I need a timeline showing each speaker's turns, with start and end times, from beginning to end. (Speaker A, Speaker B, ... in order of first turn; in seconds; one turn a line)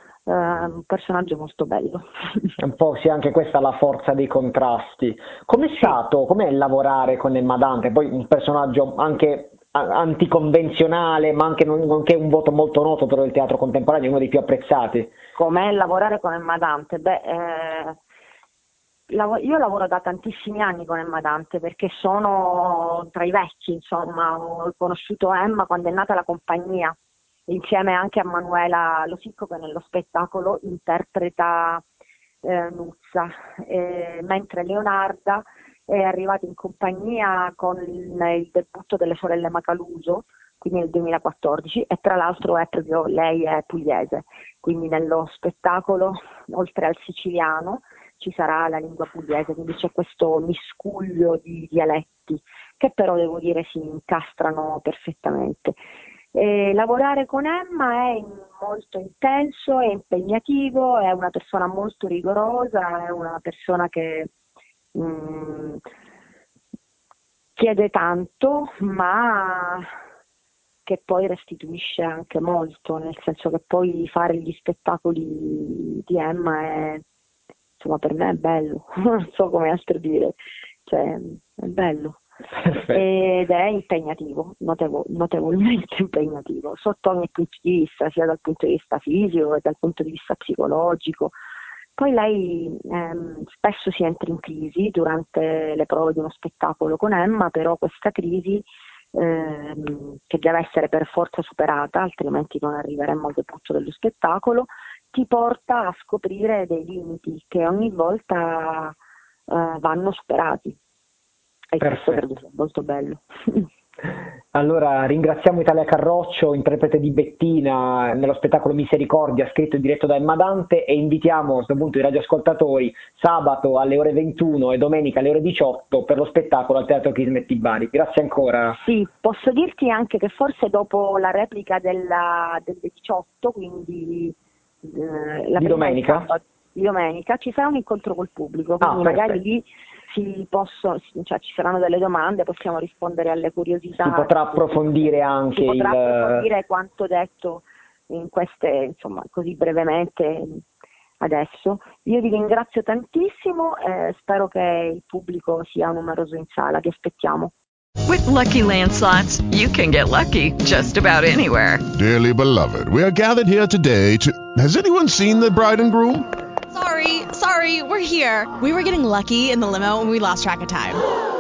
Speaker A: 0.3-2.5
Speaker B: 2.6-15.1
Speaker A: 15.4-18.0
Speaker A: 19.1-26.9
Speaker A: 27.5-31.8
Speaker A: 32.4-55.8
Speaker A: 56.3-64.3
Speaker A: 65.0-65.8
Speaker A: 67.6-69.9
Speaker A: 70.9-77.0
Speaker A: 77.8-82.2
Speaker A: 82.8-91.3
Speaker A: 92.0-109.0
Speaker A: 109.5-110.8
Speaker A: 111.7-113.7
Speaker B: 111.8-112.3
Speaker B: 114.5-128.8
Speaker A: 128.8-150.6
Speaker B: 135.6-136.3
Speaker B: 138.8-139.4
Speaker B: 144.0-146.5
Speaker A: 151.2-157.5
Speaker C: 158.1-161.8
Speaker D: 161.9-166.3
Speaker E: 166.7-171.0